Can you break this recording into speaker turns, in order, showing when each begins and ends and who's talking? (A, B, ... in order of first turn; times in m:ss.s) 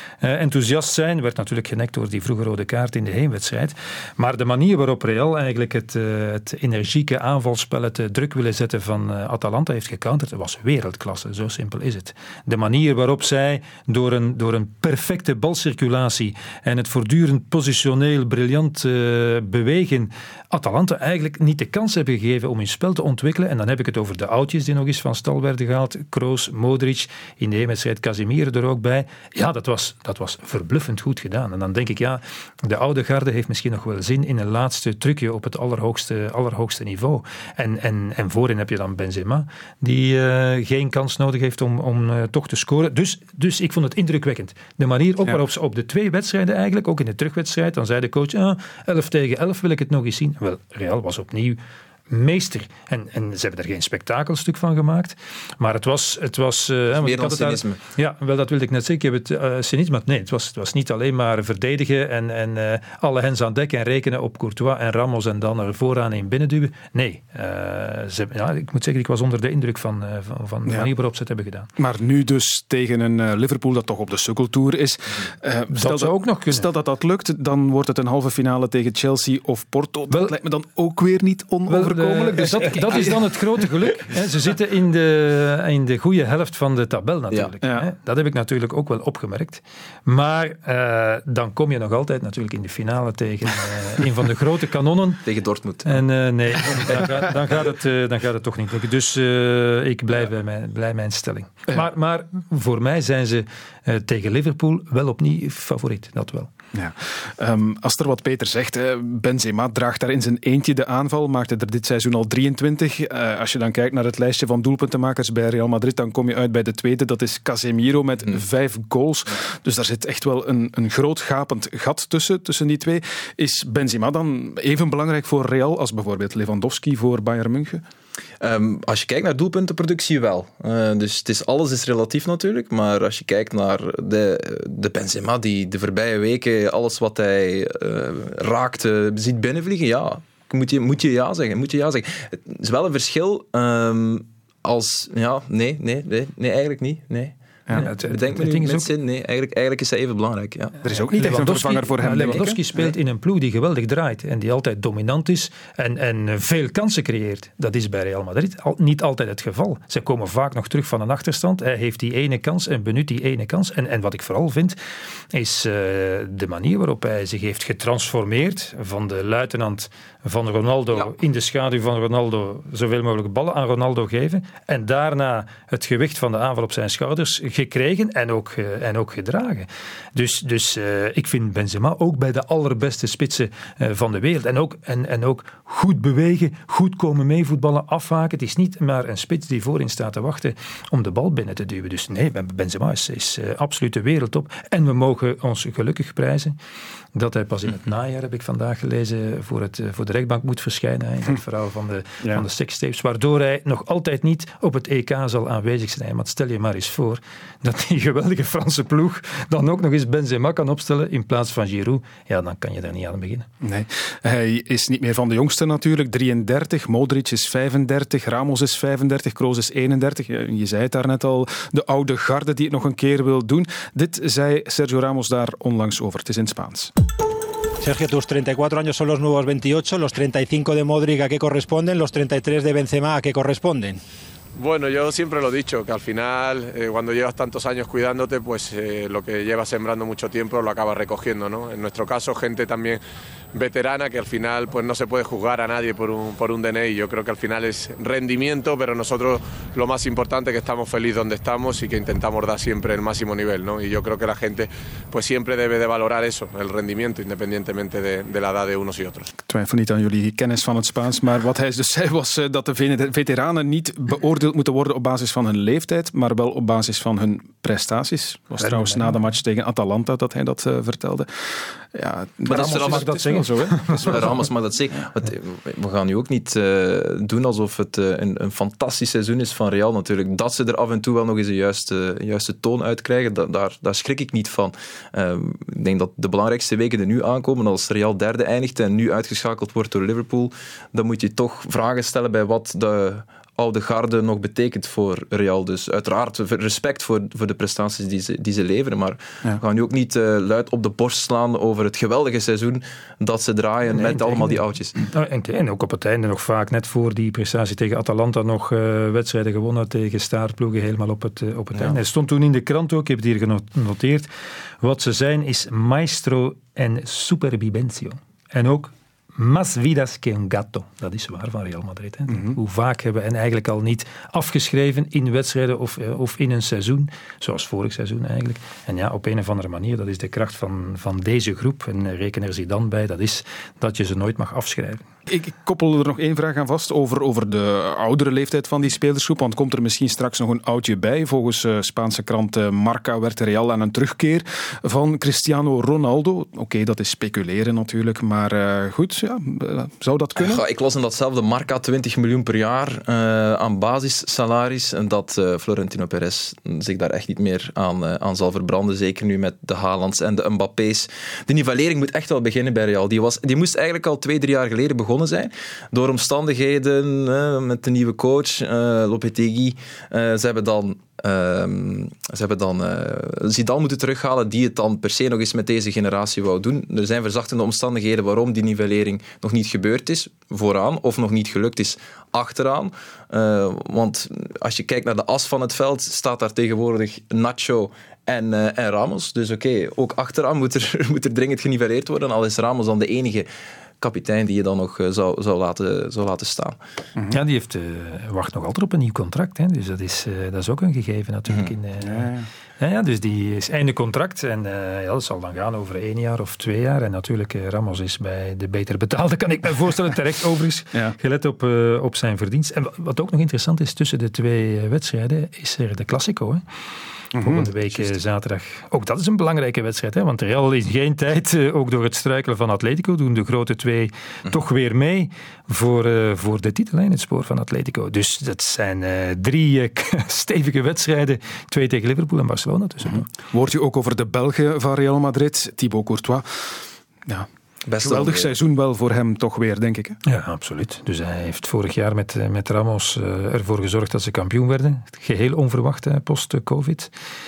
0:00.2-1:11.7 A
0:57.0-0:57.8 B
1:11.8-1:23.2 C
1:15.7-1:16.7 A
1:20.1-1:20.4 A
1:21.7-1:35.2 A
1:27.6-1:27.9 C
1:35.2-1:36.0 B
1:35.8-1:46.5 A
1:46.7-2:07.8 C
2:08.4-2:30.8 B
2:27.7-2:28.9 A
2:30.8-2:32.6 C
2:30.9-2:44.8 A
2:32.1-2:32.9 B
2:45.3-3:16.6 A
3:17.2-3:33.5 A
3:33.6-3:46.9 C
3:47.8-3:54.0 D
3:54.6-4:03.0 E
4:03.5-4:19.3 E
4:19.5-4:34.5 C
4:28.6-4:29.2 A
4:32.5-4:34.5 A
4:32.5-4:33.4 B
4:34.0-5:05.0 B
5:03.9-5:14.3 A
5:14.8-5:35.0 A
5:22.3-5:22.6 C
5:35.3-5:50.6 C
5:50.4-6:33.5 B
6:34.0-6:36.8 B
6:37.3-6:56.6 A
6:42.0-6:42.5 C
6:57.3-6:58.2 C
6:57.4-7:13.3 A
7:13.3-7:20.2 C
7:17.9-7:18.5 B
7:20.3-7:27.1 A